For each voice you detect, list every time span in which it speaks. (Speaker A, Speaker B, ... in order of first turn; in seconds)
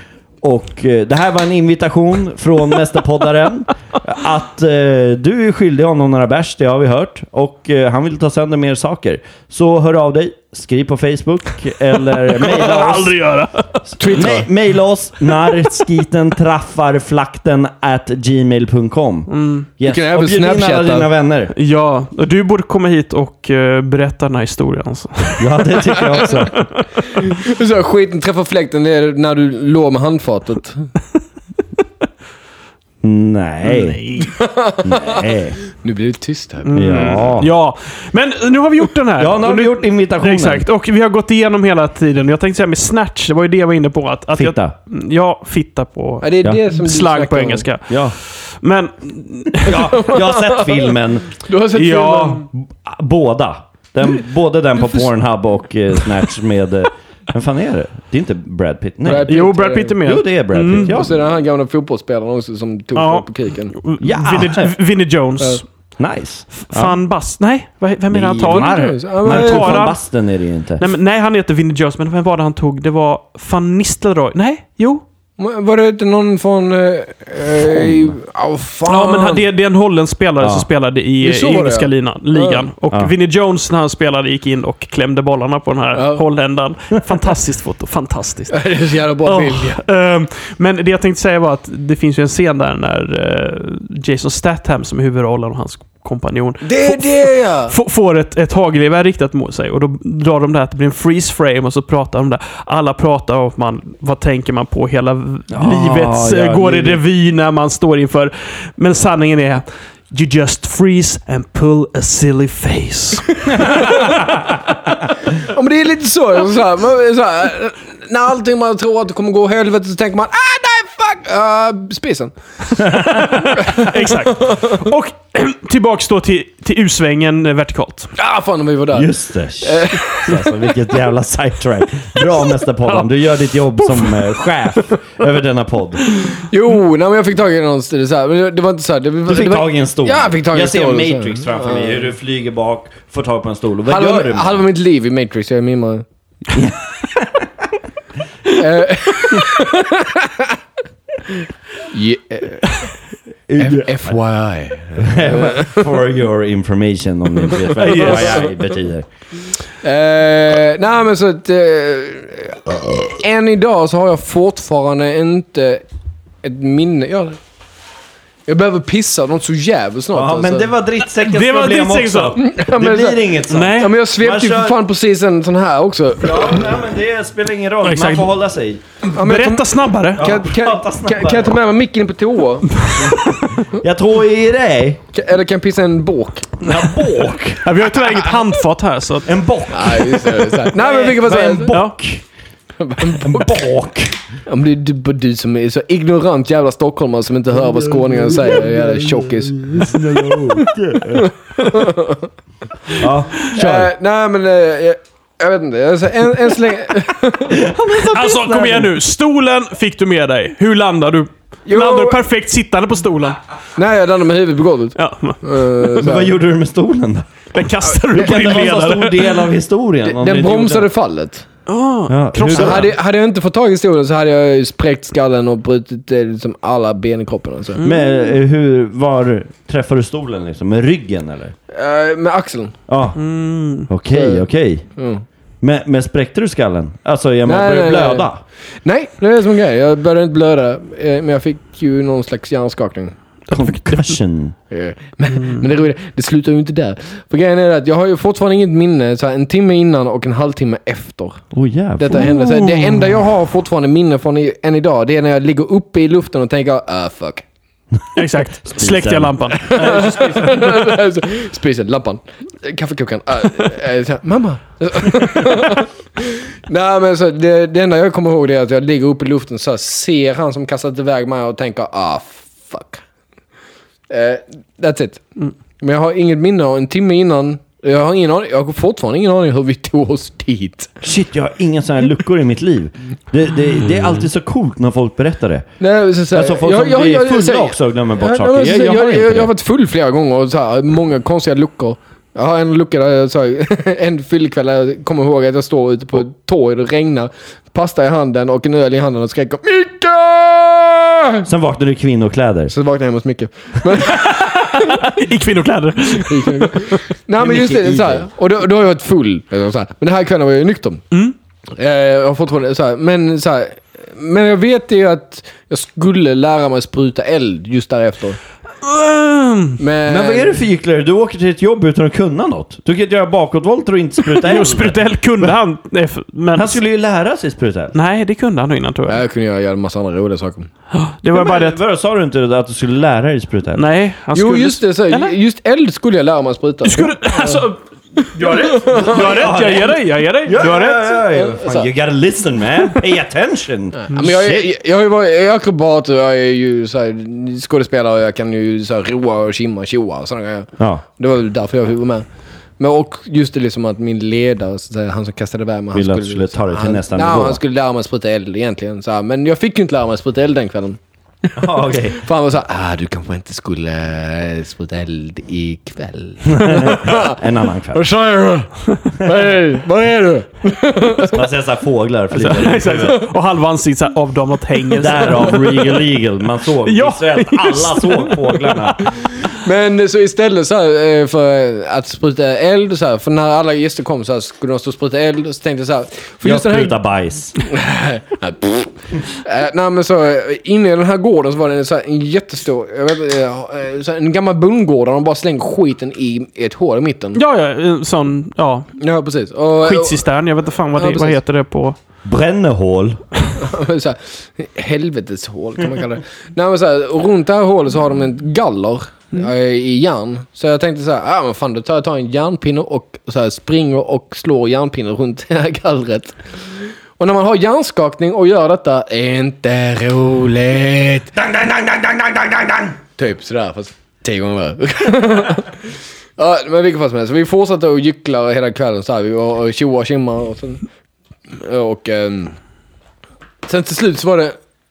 Speaker A: 0.4-13.2, 14.1-21.5, 25.4-26.6, 33.0-34.2, 34.8-35.6, 36.7-37.5, 39.2-40.7, 44.3-44.7, 47.9-48.2, 49.6-51.4, 52.5-59.3, 60.0-61.1, 64.0-64.7, 66.0-67.0, 68.1-70.8, 77.7-78.1, 80.4-80.7, 105.5-107.0, 113.6-114.4, 122.8-123.4, 128.9-136.2, 139.3-144.6, 146.5-147.5, 153.5-154.2, 155.0-159.1, 170.1-174.8, 176.2-178.8, 180.2-181.6, 183.0-185.0, 186.6-187.8, 189.3-192.2, 193.2-194.2, 197.8-201.3, 202.9-203.9, 207.5-208.9, 216.0-217.3, 218.1-220.9, 222.1-222.9, 227.8-231.5, 232.9-233.2, 233.8-234.9, 235.6-238.4, 243.5-244.6, 251.5-253.1, 258.8-260.0, 281.0-285.7, 286.3-289.5, 301.4-302.7, 307.4-308.3, 320.1-325.5, 326.5-327.9, 331.3-333.9, 338.5-344.7, 350.8-351.0, 355.9-357.6, 361.6-362.2, 366.5-368.0, 371.3-373.2, 375.0-379.3, 386.4-387.6, 402.2-403.2, 421.4-423.0
Speaker B: 12.2-14.2, 19.3-19.7, 21.5-27.2, 33.6-34.4, 36.6-49.9, 51.7-52.5, 59.1-61.1, 63.0-65.7, 66.5-70.0, 70.8-75.0, 78.9-88.6, 89.5-114.2, 123.0-128.1, 133.8-134.2, 157.8-158.4, 171.1-172.4, 173.5-173.9, 177.8-178.3, 179.1-180.3, 182.8-183.3, 187.6-189.3, 191.7-192.0, 208.0-213.4, 215.0-215.9, 217.5-219.5, 221.7-222.9, 227.8-228.1, 233.2-233.9, 245.4-245.6, 258.1-260.2, 304.1-307.0, 318.8-319.8, 324.3-326.8, 327.9-329.2, 330.9-331.8, 333.7-335.4, 336.8-337.8, 338.4-341.3, 372.3-376.0, 376.8-378.9, 397.4-398.9, 399.8-402.0
Speaker C: 14.0-14.5, 19.8-21.1, 27.1-30.9, 34.3-37.2, 46.2-47.7, 49.7-52.5, 59.0-60.0, 60.9-63.8, 68.4-69.9, 75.4-79.4, 81.2-82.7, 86.0-86.2, 88.5-89.8, 96.6-97.7, 115.5-122.9, 123.6-124.7, 128.2-129.1, 129.6-130.5, 136.3-142.1, 143.9-146.0, 148.5-150.6, 151.9-152.9, 153.6-155.8, 157.5-158.5, 159.8-165.8, 166.4-167.4, 168.5-170.7, 172.3-176.7, 179.1-182.8, 185.1-186.7, 189.7-191.8, 192.8-193.7, 194.5-200.4, 201.1-202.3, 202.9-207.7, 211.7-212.2, 213.8-216.3, 220.0-221.5, 222.5-227.8, 231.7-232.8, 234.1-234.4, 235.0-235.2, 237.5-238.3, 238.8-243.2, 244.7-251.4, 252.0-257.5, 259.6-273.0, 274.1-275.3, 275.8-281.0, 285.8-301.4, 302.7-305.1, 306.1-311.1, 311.8-318.4, 319.8-320.6, 329.1-330.7, 334.3-337.6, 338.2-339.5, 341.3-341.9, 343.9-352.3, 352.8-367.4, 367.9-371.4, 379.3-387.0, 387.6-397.4, 399.0-400.3, 401.0-401.4, 403.6-416.4, 417.2-421.4, 423.1-430.8, 431.5-432.6, 433.6-434.6